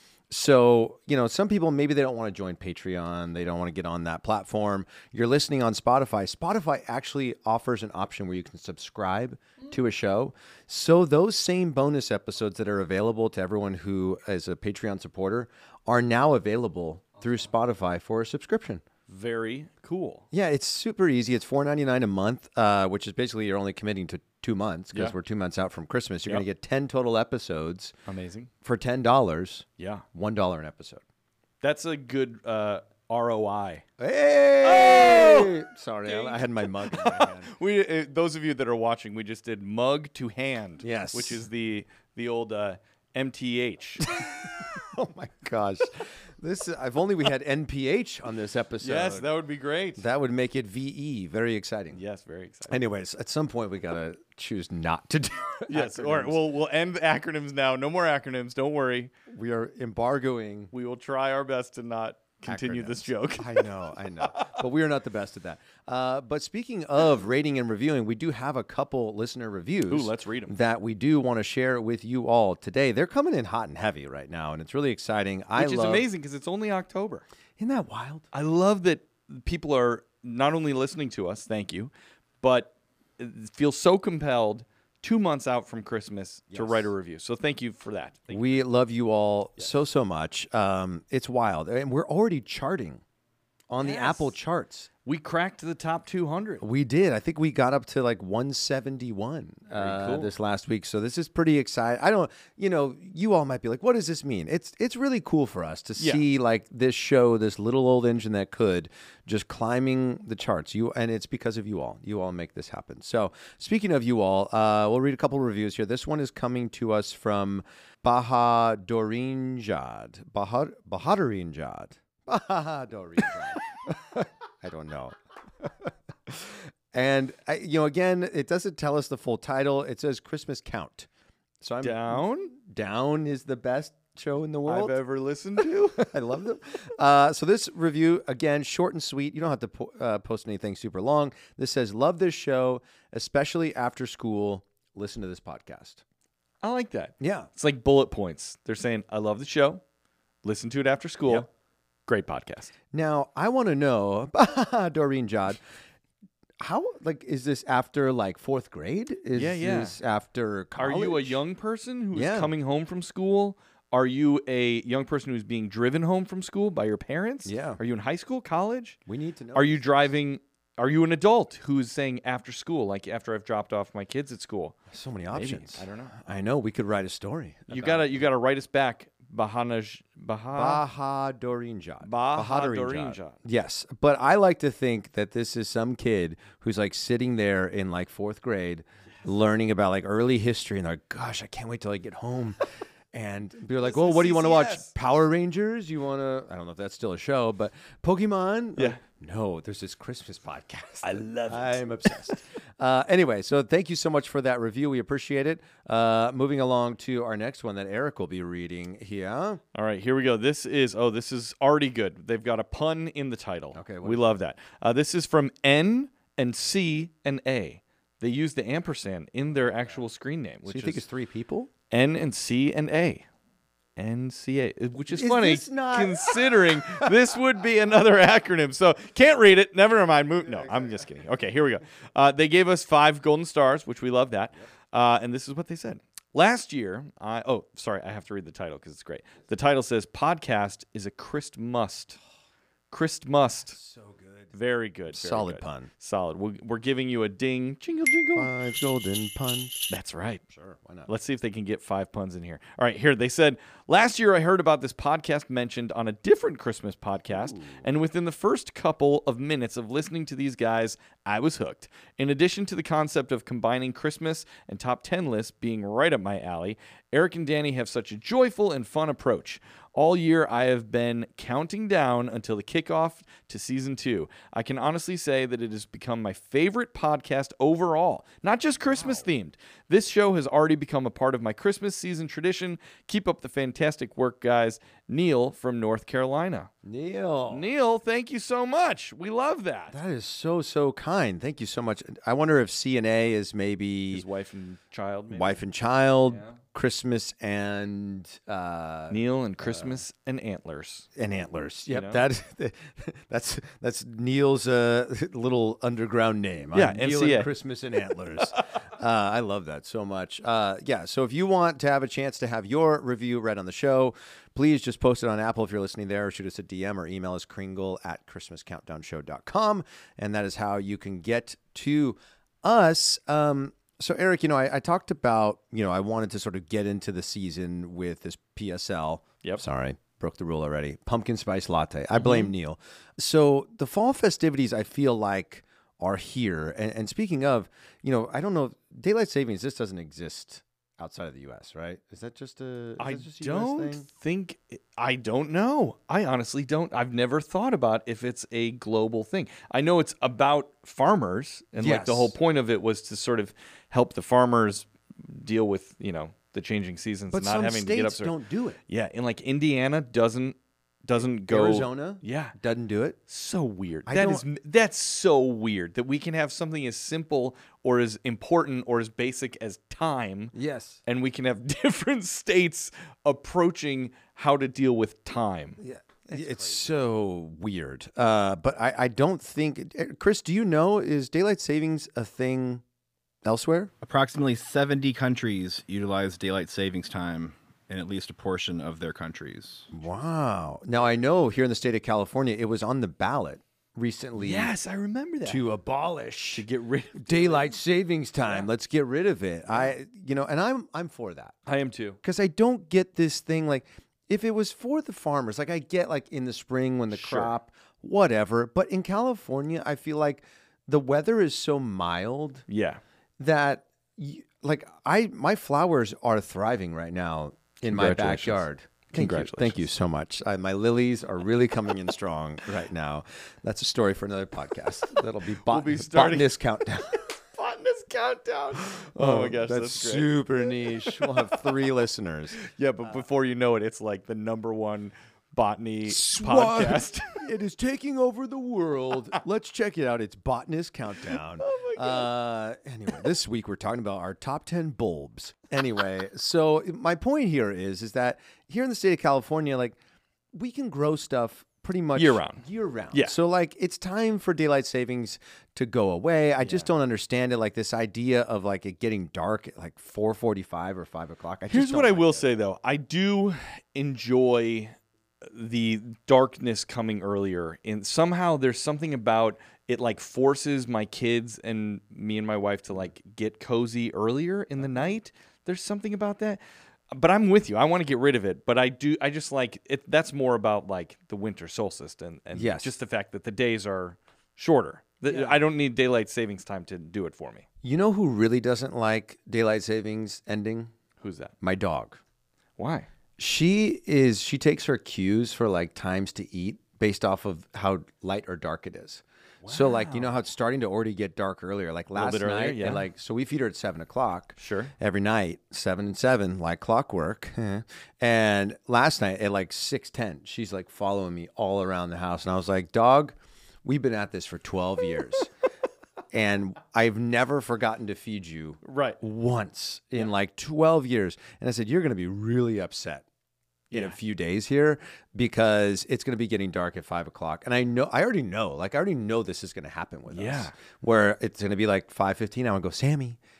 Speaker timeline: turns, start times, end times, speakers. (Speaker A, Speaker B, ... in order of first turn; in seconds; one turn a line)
Speaker A: 0.3-18.8
Speaker B: 19.1-20.2
Speaker A: 20.3-27.9
Speaker B: 28.1-28.5
Speaker A: 28.6-31.0
Speaker B: 29.8-30.0
Speaker B: 31.6-33.8
Speaker A: 34.0-37.5
Speaker B: 34.6-44.2
Speaker A: 40.8-41.4
Speaker A: 44.0-49.2
Speaker B: 48.8-50.0
Speaker A: 50.0-52.0
Speaker B: 51.9-52.8
Speaker A: 52.7-56.4
Speaker B: 55.7-59.1
Speaker A: 59.3-60.7
Speaker B: 60.7-64.6
Speaker A: 62.4-76.1
Speaker B: 69.9-70.5
Speaker B: 75.5-77.3
Speaker A: 77.6-78.3
Speaker B: 78.3-88.6
Speaker A: 86.5-86.9
Speaker A: 88.3-93.0
Speaker A: 93.7-94.9
Speaker B: 93.8-94.3
Speaker B: 95.0-96.6
Speaker A: 96.6-131.1
Speaker B: 99.7-100.3
Speaker B: 106.0-106.2
Speaker A: 131.6-135.0
Speaker B: 131.8-132.5
Speaker B: 134.6-136.1
Speaker A: 136.0-146.0
Speaker B: 146.6-149.8
Speaker A: 147.2-147.5
Speaker B: 150.4-151.5
Speaker B: 152.1-152.7
Speaker A: 152.9-155.6
Speaker A: 156.6-161.4
Speaker B: 159.3-160.0
Speaker B: 160.8-169.0
Speaker A: 162.1-162.5
Speaker A: 167.4-167.8
Speaker A: 169.1-169.9
Speaker B: 169.5-174.8
Speaker A: 174.9-178.2
Speaker B: 175.3-176.1
Speaker B: 177.7-180.8
Speaker A: 180.5-209.6
Speaker B: 182.0-183.4
Speaker B: 193.8-194.9
Speaker B: 201.0-202.4
Speaker B: 209.7-221.0
Speaker A: 213.7-214.3
Speaker A: 220.7-221.7
Speaker B: 221.9-223.2
Speaker B: 223.9-242.2
Speaker A: 225.1-227.1
Speaker A: 230.4-231.0
Speaker B: 242.9-243.8
Speaker A: 243.7-244.5
Speaker B: 244.5-248.5
Speaker A: 245.1-245.9
Speaker A: 248.3-249.9
Speaker B: 249.9-250.4
Speaker A: 250.5-251.1
Speaker B: 251.1-286.7
Speaker A: 257.3-257.9
Speaker A: 278.9-279.2
Speaker A: 286.8-287.7
Speaker B: 287.5-289.9
Speaker A: 289.9-294.2
Speaker B: 294.1-295.6
Speaker A: 295.3-300.0
Speaker B: 296.3-296.6
Speaker B: 299.1-301.1
Speaker A: 301.1-344.1
Speaker B: 301.9-302.2
Speaker B: 306.7-307.5
Speaker B: 332.2-332.5
Speaker B: 343.0-358.3
Speaker A: 351.8-352.3
Speaker A: 357.3-358.8
Speaker B: 358.9-362.5
Speaker A: 361.2-363.2
Speaker B: 363.3-370.5
Speaker A: 364.1-364.4
Speaker A: 370.5-371.0
Speaker B: 371.1-375.8
Speaker A: 375.8-382.8
Speaker B: 376.3-376.7
Speaker A: 383.4-383.9
Speaker C: 384.0-389.9
Speaker A: 389.9-394.7
Speaker B: 394.4-395.6
Speaker A: 395.4-401.6
Speaker B: 396.5-397.8
Speaker B: 398.4-398.7
Speaker B: 401.7-402.2
Speaker A: 402.2-412.6
Speaker B: 407.1-407.5
Speaker B: 412.7-413.0
Speaker A: 413.4-427.2
Speaker B: 417.8-419.9
Speaker B: 425.6-426.5
Speaker B: 427.2-431.6
Speaker A: 428.9-432.6
Speaker B: 432.6-437.4
Speaker A: 436.1-450.0
Speaker B: 441.6-442.3
Speaker A: 450.5-462.4
Speaker B: 452.1-453.3
Speaker B: 456.6-456.9
Speaker B: 461.7-476.6
Speaker A: 474.8-475.1
Speaker B: 477.1-487.6
Speaker A: 482.5-482.9
Speaker A: 485.3-485.6
Speaker A: 487.8-490.9
Speaker B: 491.2-491.5
Speaker A: 491.6-492.2
Speaker B: 492.8-493.1
Speaker A: 493.4-515.5
Speaker B: 499.6-500.3
Speaker B: 502.1-503.1
Speaker B: 504.6-504.9
Speaker A: 516.3-523.2
Speaker B: 518.8-519.2
Speaker B: 523.9-524.2
Speaker A: 523.9-533.4
Speaker B: 530.3-530.7